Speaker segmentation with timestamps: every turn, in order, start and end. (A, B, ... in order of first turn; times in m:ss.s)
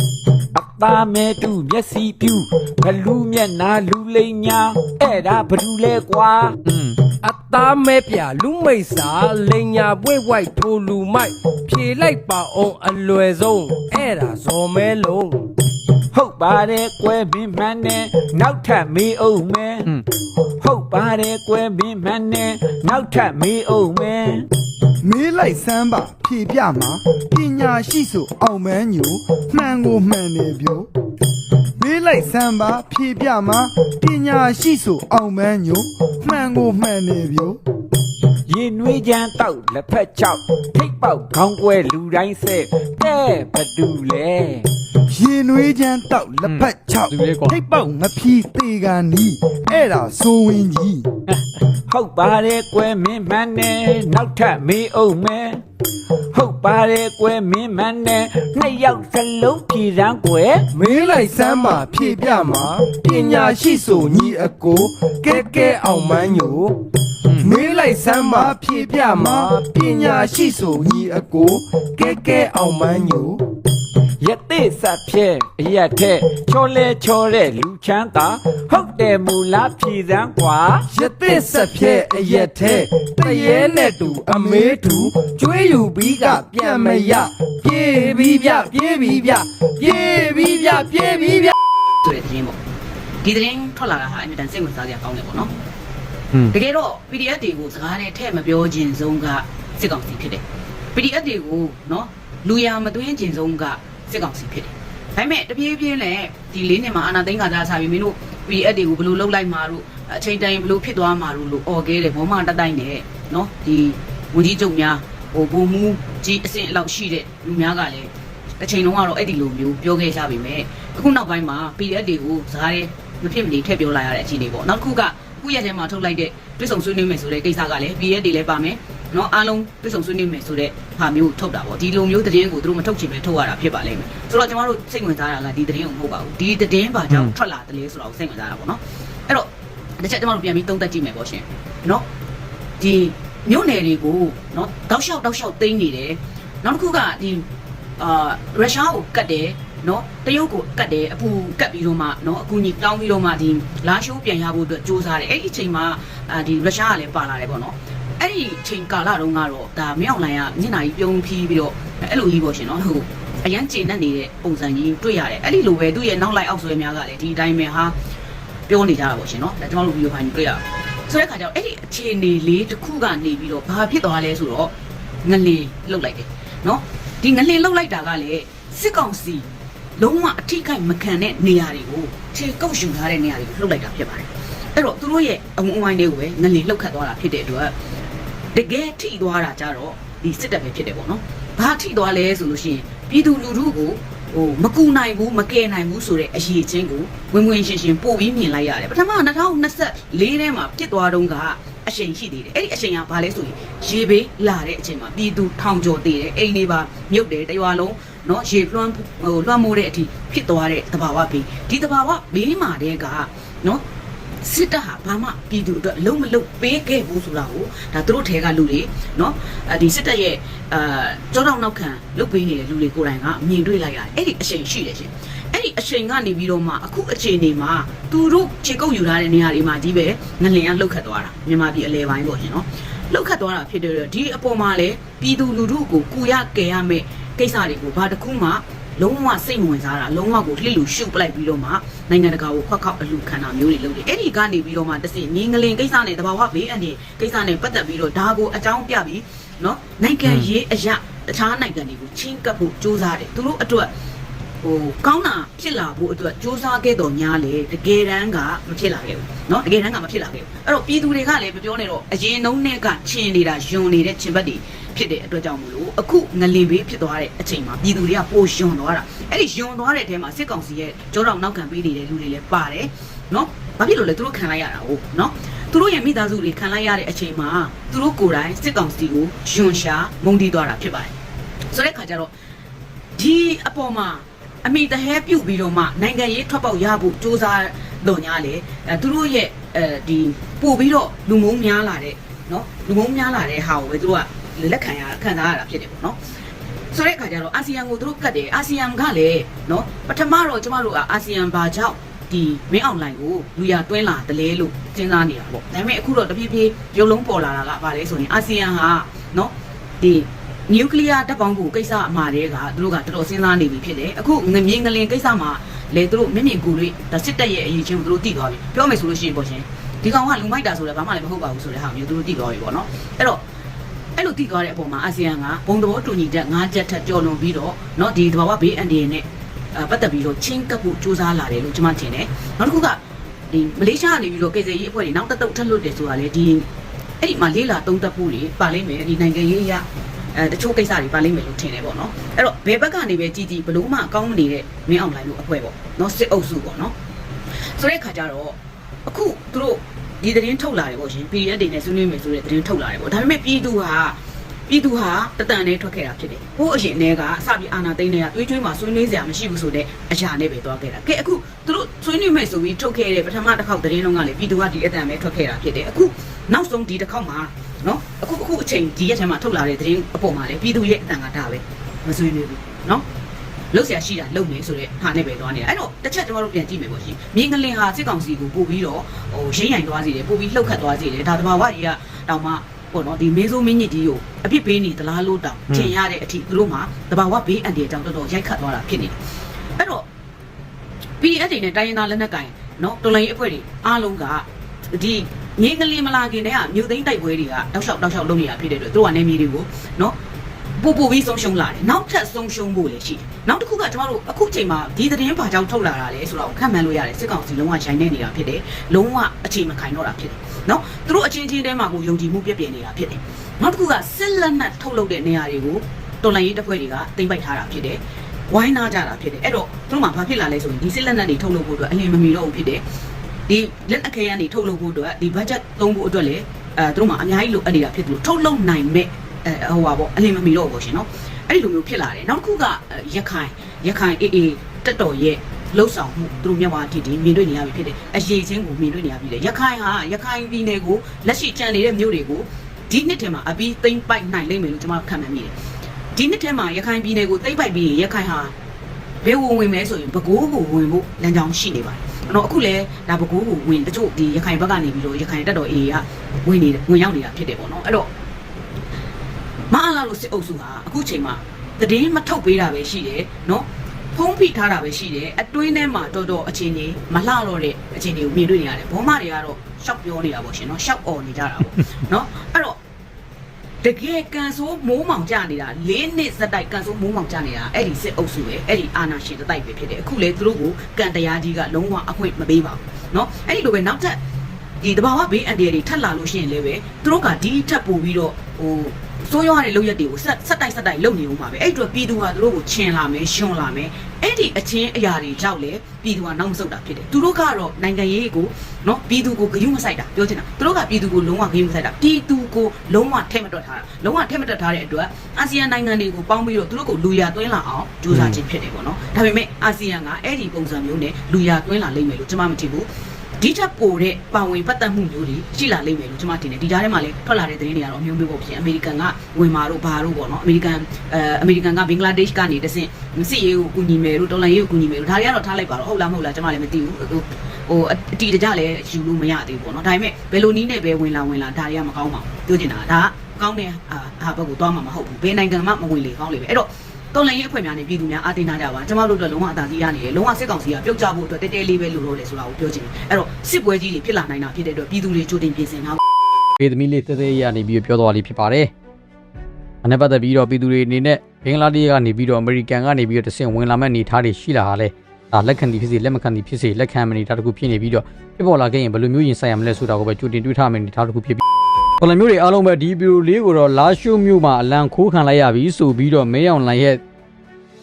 0:00.5-0:06.6 A
0:06.7-0:07.0 B
0:07.2-0:15.4 C
0:16.1-0:19.9 A
0:20.6-0:24.4 A
0:25.0-0:30.9 D
0:31.8-0:37.6 D
0:38.5-0:44.6 A
0:45.1-0:51.0 D
0:46.4-0:47.6 B
0:51.9-0:55.6 A
0:56.3-1:00.7 A
1:00.7-1:04.2 C
1:00.9-1:06.6 D
1:05.3-1:06.6 C
1:07.4-1:11.6 D
1:07.6-1:10.3 C
1:12.0-1:13.2 C
1:12.7-1:13.4 D
1:14.2-1:20.9 A
1:20.9-1:25.1 D
1:21.1-1:31.5 C
1:26.0-1:27.3 D
1:28.8-1:29.3 D
1:29.9-1:30.3 D
1:32.0-1:32.6 E
1:33.2-1:35.5 E
1:36.5-1:40.4 E
1:40.9-2:19.5 E
2:20.0-2:22.0 E
2:22.8-2:27.4 E
2:28.0-2:47.9 E
2:48.7-2:54.7 E
2:55.2-2:59.5 E
3:00.0-3:07.7 E
3:08.5-3:33.8 E
3:34.4-4:13.9 E
4:14.6-4:41.1 E
4:41.7-4:42.3 E
4:43.2-4:56.2 E
4:56.9-5:23.4 E
5:24.2-5:33.0 E
5:33.5-5:36.7 E
5:37.2-5:46.9 E
5:47.8-5:48.6 E
5:49.1-6:13.0 E
6:13.7-6:29.2 E
6:29.8-6:30.0 E
6:31.2-6:40.2 E
6:40.8-7:02.8 E
7:03.5-7:25.5 E
7:26.2-7:28.5 E
7:29.2-7:38.1 E
7:39.7-7:52.8 E
7:53.8-8:04.2 E
8:04.8-8:32.9 E
8:28.1-8:28.4 B
8:33.4-9:06.0 E
9:06.6-9:08.7 B
9:09.8-9:21.4 B
9:22.0-9:27.0 B